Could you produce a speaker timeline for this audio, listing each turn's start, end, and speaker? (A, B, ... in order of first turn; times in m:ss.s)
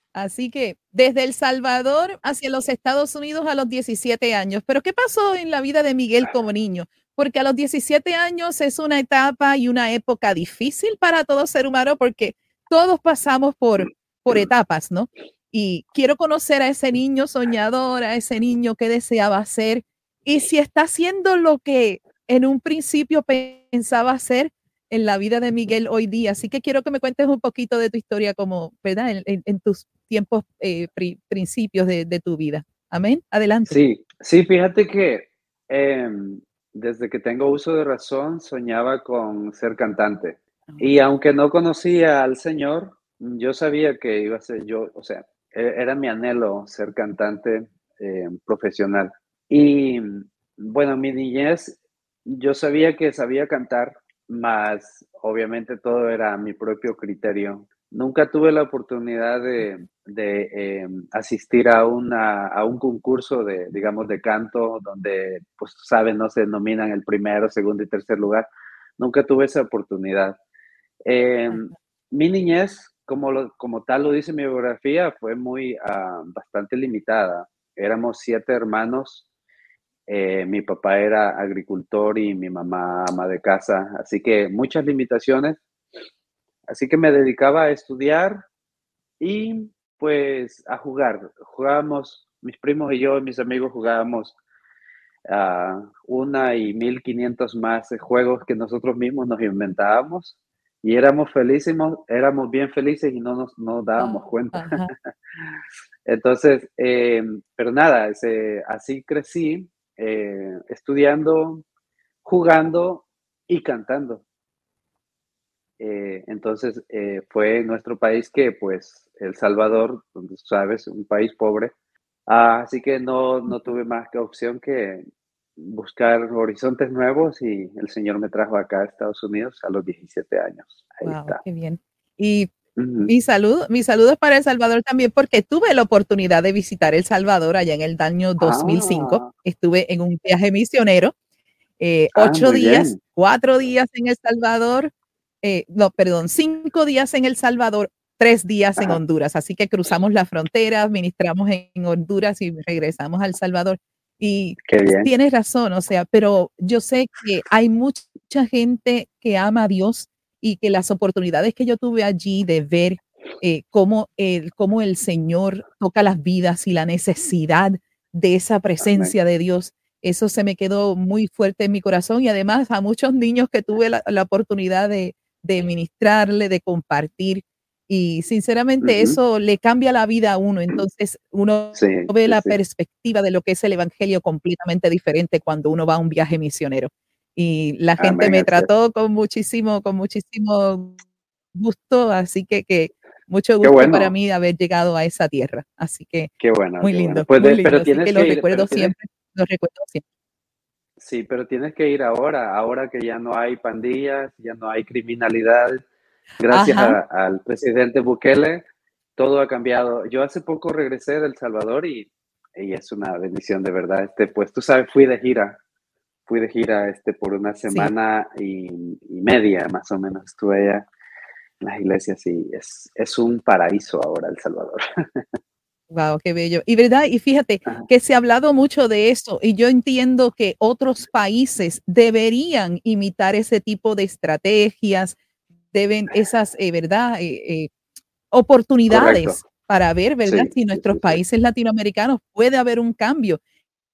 0:00.1-0:33.8 A
0:33.7-1:08.5 B
1:09.0-1:10.4 B
1:11.0-1:19.2 B
1:20.1-1:25.6 B
1:26.7-1:28.4 B
1:29.2-1:34.4 B
1:35.3-1:44.8 B
1:44.0-1:44.9 A
1:46.0-1:51.6 B
1:52.2-1:54.2 B
1:55.8-2:01.7 B
2:02.3-2:05.0 B
2:05.6-2:11.4 B
2:11.0-2:12.5 A
2:12.8-2:13.1 B
2:13.0-2:21.1 A
2:18.4-2:19.3 B
2:21.8-2:24.9 A
2:22.2-2:23.0 B
2:25.4-3:11.0 A
2:34.7-2:35.1 B
2:48.8-2:49.1 B
2:58.8-2:59.2 B
3:01.8-3:02.6 B
3:08.0-3:08.7 B
3:11.5-3:20.0 A
3:13.6-3:14.1 B
3:16.4-3:18.9 B
3:21.0-3:25.8 B
3:26.4-3:28.6 B
3:26.5-3:27.0 A
3:29.2-3:35.6 B
3:36.3-3:40.9 B
3:41.6-3:45.2 B
3:45.9-3:55.2 A
3:55.7-3:57.7 A
3:58.3-4:03.4 A
3:58.9-3:59.4 B
4:00.2-4:01.2 B